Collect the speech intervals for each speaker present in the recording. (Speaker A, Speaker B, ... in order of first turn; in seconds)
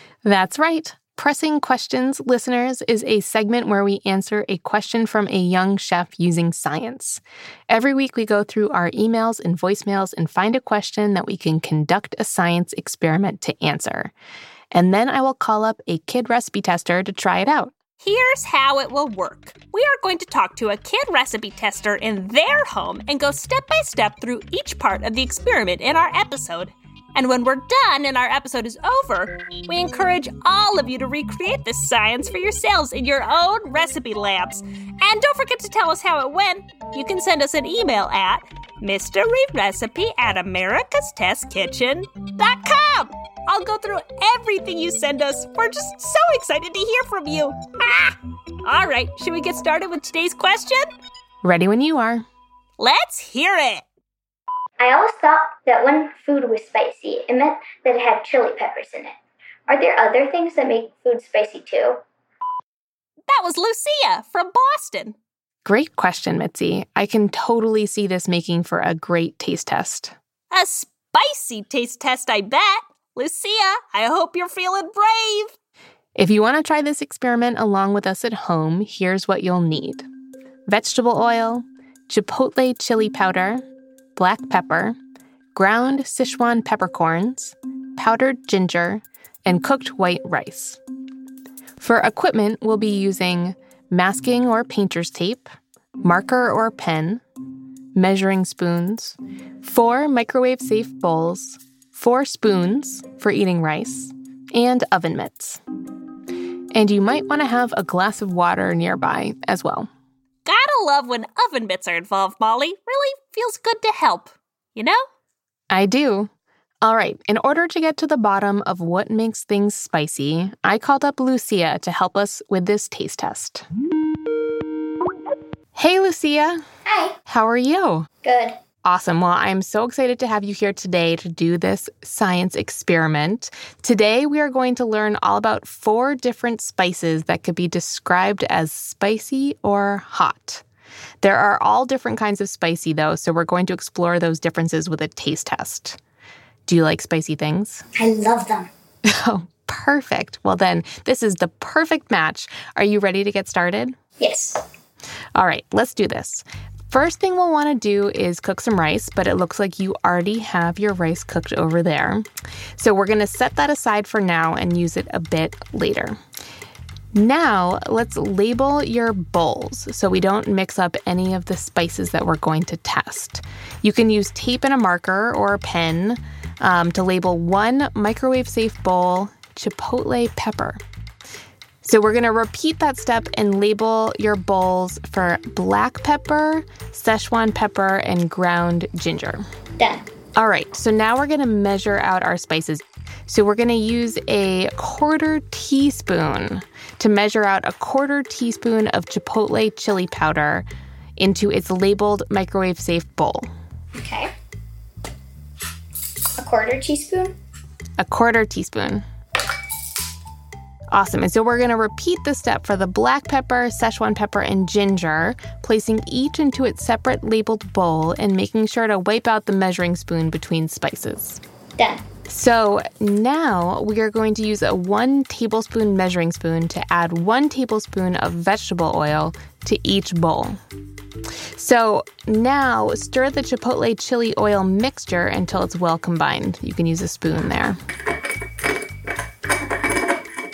Speaker A: 0.2-14.1, 14.7-17.7, 51.4-52.2, 65.7-70.1, 76.2-80.1, 80.7-83.6, 84.2-85.0, 85.5-90.8, 91.8-95.5, 96.0-97.2, 98.0-105.6, 106.7-109.9, 115.7-116.3, 116.8-123.6, 125.8-126.6, 127.3-128.1, 128.8-140.6, 141.2-146.0, 146.7-147.8, 149.1-153.9, 155.3-162.3, 162.8-166.2, 167.1-180.8, 181.8-189.4, 190.4-200.7, 201.2-203.5, 208.0-209.1, 210.9-221.4, 222.3-230.6, 231.6-237.8
Speaker B: 18.0-50.9, 52.8-53.8, 63.3-65.2, 70.5-75.5, 110.5-115.0
Speaker C: 54.8-59.1, 59.7-62.0, 126.9-127.2, 128.2-128.6, 148.0-148.7, 154.2-154.6, 189.8-190.1, 203.9-204.3, 206.4-207.4, 221.8-222.1